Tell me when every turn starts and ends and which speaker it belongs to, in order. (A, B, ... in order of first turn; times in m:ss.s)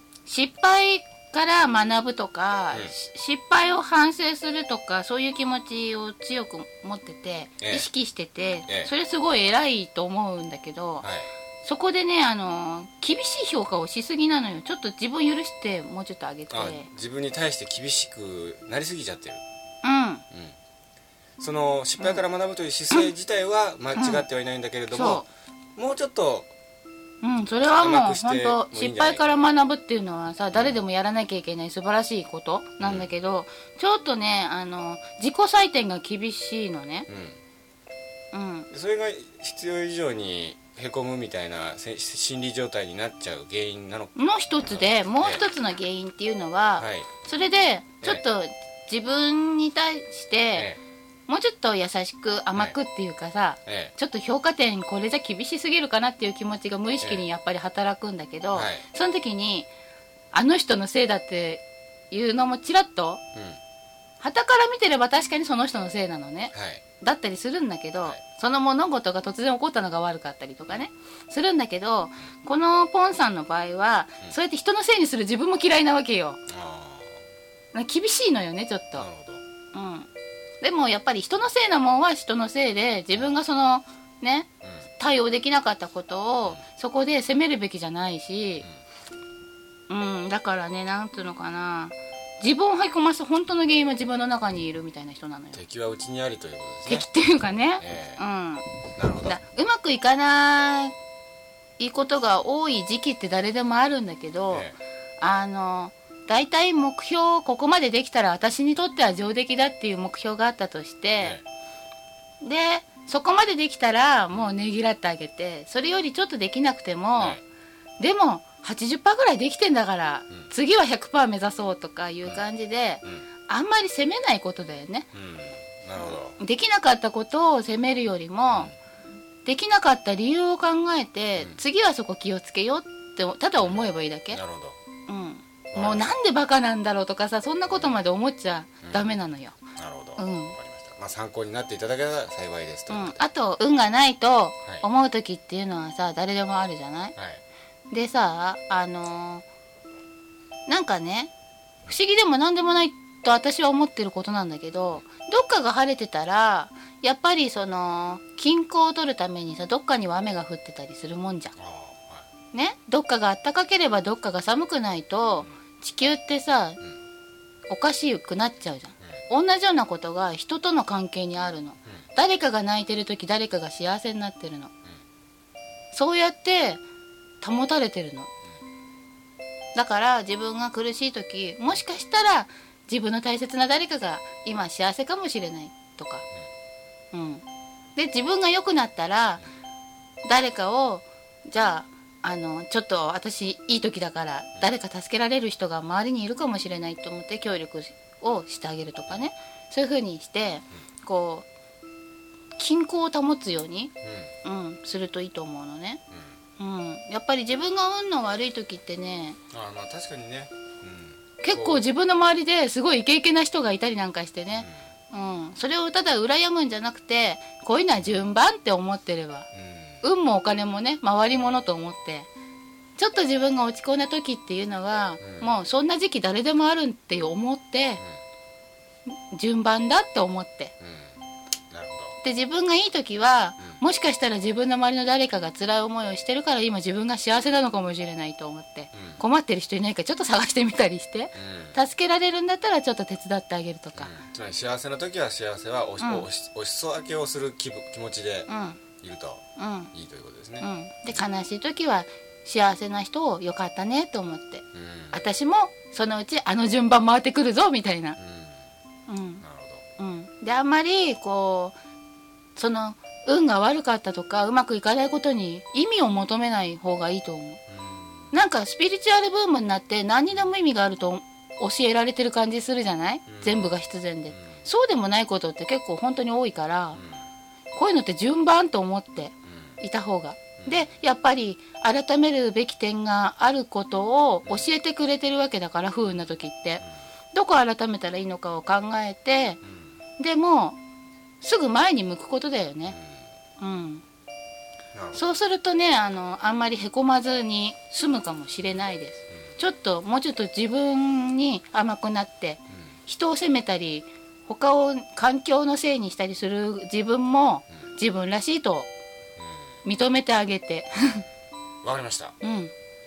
0:00.2-0:11.0 A
0:07.6-0:07.9 B
0:08.6-0:08.9 B
0:11.0-0:11.3 B
0:11.6-0:16.8 A
0:16.5-0:19.4 B
0:19.8-0:20.2 A
0:21.4-0:26.5 B
0:23.9-0:24.2 A
0:24.9-0:25.2 A
0:27.2-0:37.1 A
0:27.8-0:29.2 B
0:30.5-0:30.8 B
0:32.8-0:33.1 B
0:37.1-0:37.4 B
0:38.3-0:38.7 A
0:38.7-0:44.2 B
0:44.2-0:50.7 A
0:44.7-0:45.4 B
0:46.8-0:47.1 B
0:50.5-0:50.8 B
0:51.3-0:59.7 A
0:53.6-0:53.9 B
0:58.5-0:58.8 B
1:00.3-1:03.2 A
1:04.2-1:16.4 A
1:06.5-1:06.8 B
1:16.5-1:17.2 B
1:17.7-1:19.0 A
1:19.0-1:19.4 B
1:19.7-1:20.1 A
1:20.6-1:24.5 A
1:24.6-1:24.9 B
1:25.0-1:28.6 A
1:29.9-1:35.6 A
1:35.5-1:37.1 B
1:36.9-1:38.6 A
1:37.8-1:38.2 B
1:39.0-1:39.4 B
1:39.2-1:40.9 A
1:41.8-1:44.7 A
1:45.2-1:51.4 A
1:52.4-1:57.4 A
1:58.0-2:05.1 A
2:05.1-2:06.4 B
2:06.0-2:08.7 A
2:09.4-2:14.4 A
2:13.6-2:14.8 B
2:15.1-2:19.6 A
2:15.7-2:16.1 B
2:17.7-2:17.9 B
2:18.8-2:19.2 B
2:19.8-2:23.2 B
2:20.2-2:20.5 A
2:22.9-2:27.1 A
2:27.2-2:27.4 B
2:27.9-2:29.4 A
2:30.7-2:31.3 A
2:31.8-2:41.5 A
2:41.6-2:42.2 B
2:42.5-2:46.8 A
2:47.7-2:54.7 A
2:55.9-2:56.8 A
2:57.4-2:58.3 A
2:59.7-3:06.2 A
3:07.1-3:07.4 A
3:08.0-3:09.4 A
3:10.2-3:21.4 A
3:22.6-3:23.9 A
3:24.0-3:24.3 B
3:24.4-3:26.0 A
3:26.6-3:29.4 A
3:29.5-3:31.8 B
3:31.4-3:39.5 A
3:38.0-3:38.2 B
3:39.5-3:40.0 B
3:40.0-3:42.3 A
3:43.0-3:48.0 A
3:45.2-3:45.5 B
3:49.1-3:50.7 A
3:50.8-3:52.2 B
3:52.2-4:04.1 A
3:58.9-3:59.2 B
4:01.3-4:01.8 B
4:04.0-4:10.7 B
4:08.5-4:08.8 A
4:09.6-4:09.9 A
4:10.6-4:18.2 A
4:14.7-4:15.2 B
4:18.2-4:18.6 B
4:19.1-4:19.4 A
4:19.4-4:19.8 B
4:20.0-4:21.8 A
4:22.6-4:27.6 A
4:27.7-4:28.3 B
4:28.3-4:37.0 A
4:33.3-4:33.7 B
4:34.3-4:34.6 B
4:36.9-4:37.2 B
4:37.7-4:49.6 A
4:39.4-4:39.8 B
4:40.6-4:41.0 B
4:49.6-4:49.9 B
4:50.2-4:50.8 A
4:51.4-4:53.0 A
4:52.9-4:53.2 B
4:53.6-4:54.0 A
4:54.9-4:55.4 B
4:55.1-5:08.9 A
5:09.8-5:11.2 A
5:11.8-5:12.4 B
5:12.4-5:12.7 A